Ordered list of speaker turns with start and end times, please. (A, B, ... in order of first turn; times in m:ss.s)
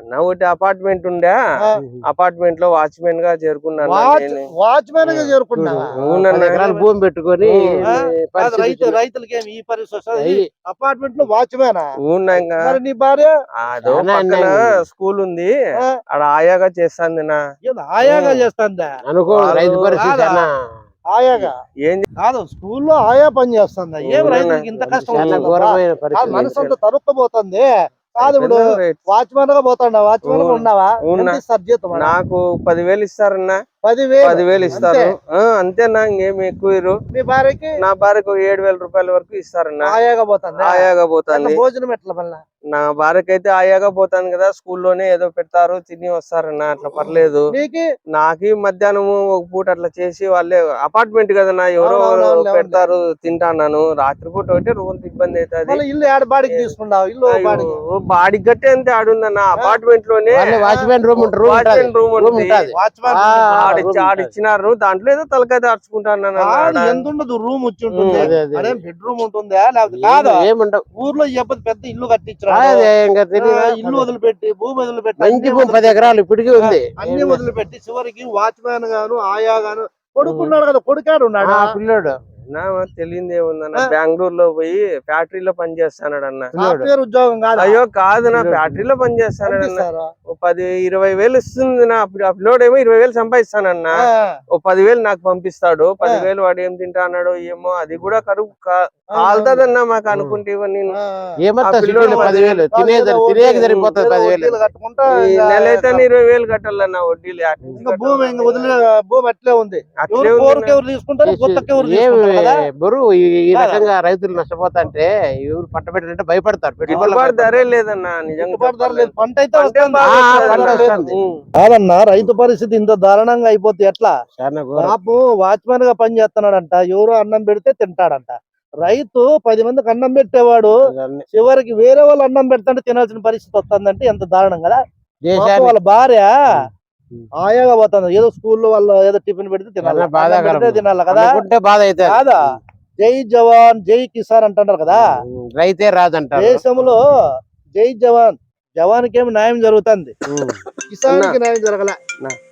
0:00.1-0:01.4 A
0:02.1-0:04.4 A
0:03.8-0:05.9 B
0:05.1-0:09.0 C
0:06.0-0:06.8 A
0:07.4-0:07.8 A
0:07.8-0:13.3 B
0:10.2-0:10.4 C
0:12.0-0:12.8 A
0:13.6-0:15.5 A
0:13.8-0:14.5 C
0:16.1-0:17.4 A
0:17.6-0:18.9 B
0:18.0-0:18.4 A
0:19.1-0:20.5 C
0:19.3-0:20.0 A
0:19.9-0:20.5 B
0:21.1-0:21.5 B
0:21.4-0:22.1 A
0:22.2-0:32.1 B
0:24.0-0:25.5 A
0:24.2-0:26.5 C
0:26.3-0:26.8 A
0:28.2-0:29.0 A
0:30.2-0:31.4 A
0:31.9-0:33.6 A
0:33.8-0:35.0 B
0:34.2-0:37.0 A
0:34.5-0:34.9 C
0:37.1-0:37.8 B
0:37.8-0:39.9 A
0:39.8-0:42.4 B
0:40.6-0:41.6 A
0:42.7-0:47.5 A
0:46.9-0:47.9 B
0:48.1-0:55.8 A
0:51.8-0:52.9 B
0:55.7-0:57.8 B
0:56.5-0:56.7 A
0:57.3-1:02.7 A
1:00.3-1:04.3 C
1:00.6-1:00.9 B
1:02.8-1:03.4 B
1:03.5-1:07.0 A
1:06.4-1:10.4 B
1:07.9-1:08.3 A
1:08.2-1:08.8 C
1:09.9-1:10.8 C
1:11.0-1:12.9 B
1:12.5-1:14.1 C
1:13.4-1:21.8 B
1:15.2-1:17.4 C
1:21.4-1:22.1 C
1:22.5-1:26.5 A
1:26.6-1:26.9 C
1:26.6-1:27.8 B
1:27.6-1:34.0 A
1:28.3-1:28.8 C
1:29.4-1:30.1 B
1:34.0-1:34.3 B
1:34.5-1:40.9 A
1:39.2-1:39.6 B
1:40.1-1:40.4 C
1:41.0-1:41.3 B
1:41.4-1:44.6 C
1:41.6-1:42.6 A
1:41.9-1:46.0 B
1:43.6-1:43.8 A
1:45.2-1:48.8 A
1:47.8-1:52.6 B
1:50.0-1:50.8 A
1:51.2-1:57.6 C
1:53.5-1:53.8 B
1:56.8-1:57.1 B
1:56.9-2:01.4 A
1:58.4-2:01.0 B
2:00.0-2:01.1 C
2:01.6-2:04.1 B
2:04.4-2:04.9 C
2:04.8-2:10.8 B
2:10.9-2:11.2 C
2:11.3-2:14.8 B
2:15.2-2:15.7 C
2:15.4-2:16.3 B
2:17.4-2:21.4 B
2:19.8-2:22.2 C
2:22.1-2:22.4 B
2:23.0-2:25.0 B
2:24.9-2:26.6 C
2:26.4-2:27.0 B
2:27.8-2:30.1 B
2:30.3-2:30.6 C
2:30.9-2:32.0 B
2:31.1-2:31.4 A